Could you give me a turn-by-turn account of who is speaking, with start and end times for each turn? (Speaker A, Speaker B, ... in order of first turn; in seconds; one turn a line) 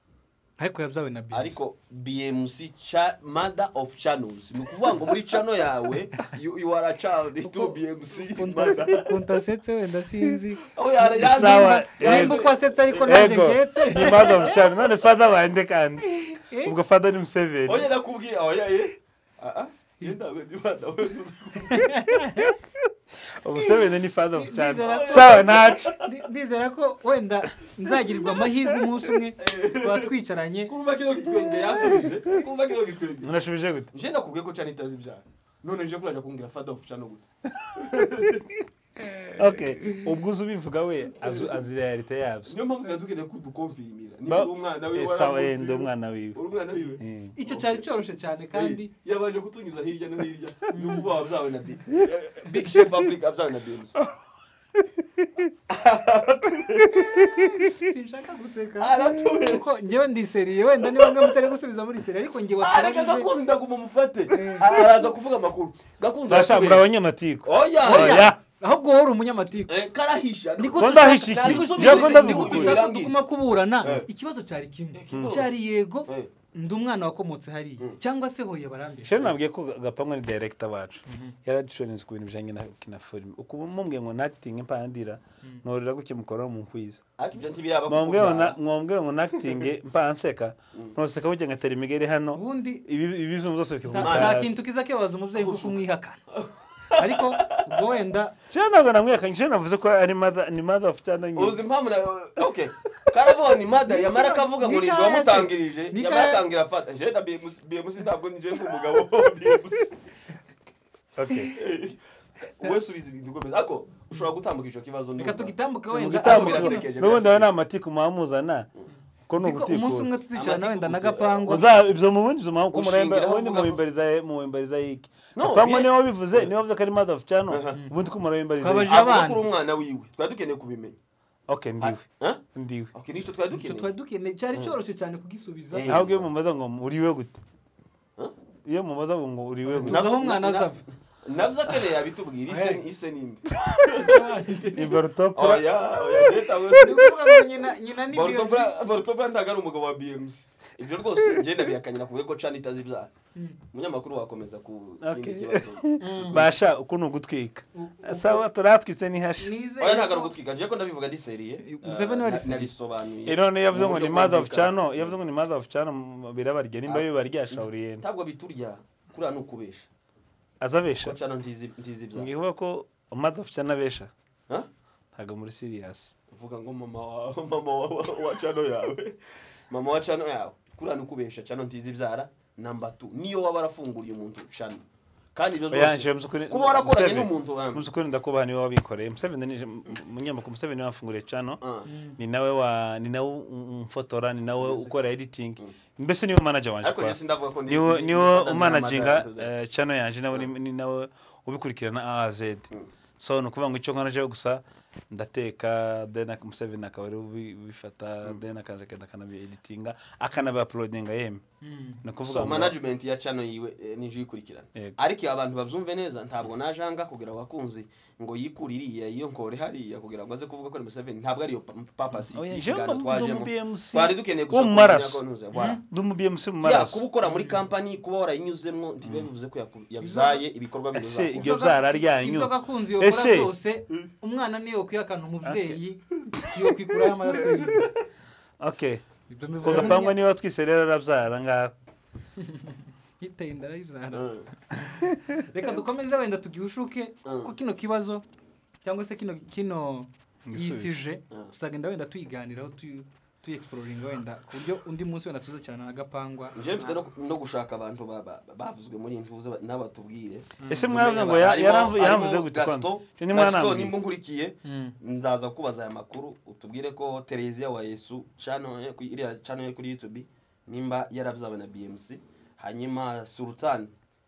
Speaker A: 0.6-1.6
Speaker B: 1.3-9.2
Speaker A: 7.4-14.6
Speaker B: 10.7-14.6
Speaker C: 11.0-12.4
Speaker C: 13.1-17.9
Speaker A: 16.1-16.7
Speaker B: 17.6-22.0
Speaker A: 21.7-22.6
Speaker C: 23.4-25.9
Speaker A: 24.4-30.7
Speaker B: 24.8-25.9
Speaker B: 29.4-30.1
Speaker B: 30.7-33.3
Speaker C: 33.2-33.9
Speaker B: 33.9-38.4
Speaker C: 37.8-38.2
Speaker C: 39.3-42.5
Speaker B: 42.5-47.8
Speaker C: 44.3-46.4
Speaker C: 47.0-47.3
Speaker A: 47.4-48.9
Speaker B: 48.5-54.0
Speaker A: 50.7-51.1
Speaker B: 55.7-57.4
Speaker A: 57.4-63.3
Speaker B: 58.8-59.8
Speaker B: 60.8-61.3
Speaker B: 62.6-66.9
Speaker A: 64.3-64.7
Speaker C: 66.3-68.4
Speaker B: 67.4-68.3
Speaker A: 67.8-69.8
Speaker B: 69.7-73.2
Speaker A: 70.6-79.4
Speaker C: 70.8-72.8
Speaker B: 74.9-75.5
Speaker C: 75.1-75.4
Speaker C: 79.0-87.0
Speaker A: 81.1-81.3
Speaker B: 87.2-88.5
Speaker C: 87.9-94.5
Speaker A: 92.3-92.8
Speaker A: 93.8-96.2
Speaker B: 94.0-94.4
Speaker B: 95.3-95.8
Speaker B: 96.3-97.6
Speaker A: 97.0-98.3
Speaker C: 98.5-101.6
Speaker B: 101.4-109.9
Speaker A: 103.8-106.4
Speaker C: 111.2-111.5
Speaker B: 111.5-117.5
Speaker A: 115.2-116.8
Speaker C: 115.9-118.7
Speaker C: 119.3-120.1
Speaker A: 119.4-121.8
Speaker B: 120.3-121.8
Speaker C: 121.5-129.0
Speaker B: 122.7-123.8
Speaker B: 125.4-126.5
Speaker B: 127.5-127.8
Speaker A: 128.6-129.4
Speaker B: 128.9-131.0
Speaker C: 131.5-132.9
Speaker B: 131.8-132.4
Speaker B: 132.9-133.9
Speaker A: 133.5-135.9
Speaker B: 135.7-136.3
Speaker C: 135.9-137.4
Speaker C: 138.7-140.0
Speaker A: 139.7-140.8
Speaker B: 139.8-147.5
Speaker A: 142.5-142.8
Speaker A: 143.6-145.0
Speaker C: 144.8-145.7
Speaker A: 146.8-148.8
Speaker B: 148.1-153.1
Speaker B: 153.7-156.5
Speaker C: 155.0-159.5
Speaker A: 156.0-156.5
Speaker A: 157.8-158.4
Speaker A: 159.4-160.3
Speaker B: 159.8-165.2
Speaker A: 161.6-162.7
Speaker C: 163.2-168.0
Speaker B: 166.9-169.9
Speaker C: 170.6-171.2
Speaker B: 171.0-172.3
Speaker C: 172.1-174.1
Speaker C: 175.2-176.1
Speaker B: 176.3-179.2
Speaker B: 179.7-184.8
Speaker B: 185.3-187.9
Speaker C: 185.7-191.6
Speaker B: 191.6-191.9
Speaker A: 191.9-192.2
Speaker C: 192.2-211.4
Speaker B: 194.6-194.9
Speaker B: 196.8-199.5
Speaker A: 211.6-212.0
Speaker C: 212.0-212.8
Speaker B: 212.2-225.8
Speaker C: 222.3-225.2
Speaker A: 225.5-225.8
Speaker C: 225.8-227.0
Speaker B: 226.6-231.4
Speaker A: 227.2-227.6
Speaker A: 230.0-230.4
Speaker C: 230.9-233.5
Speaker A: 231.3-237.9
Speaker C: 235.4-235.8
Speaker C: 238.6-239.0
Speaker A: 239.3-240.2
Speaker C: 239.6-241.7
Speaker B: 239.7-240.0
Speaker A: 242.4-248.2
Speaker B: 244.1-244.5
Speaker B: 247.2-247.5
Speaker A: 248.8-256.6
Speaker C: 250.5-251.0
Speaker B: 256.5-273.9
Speaker C: 260.7-263.9
Speaker A: 264.6-265.0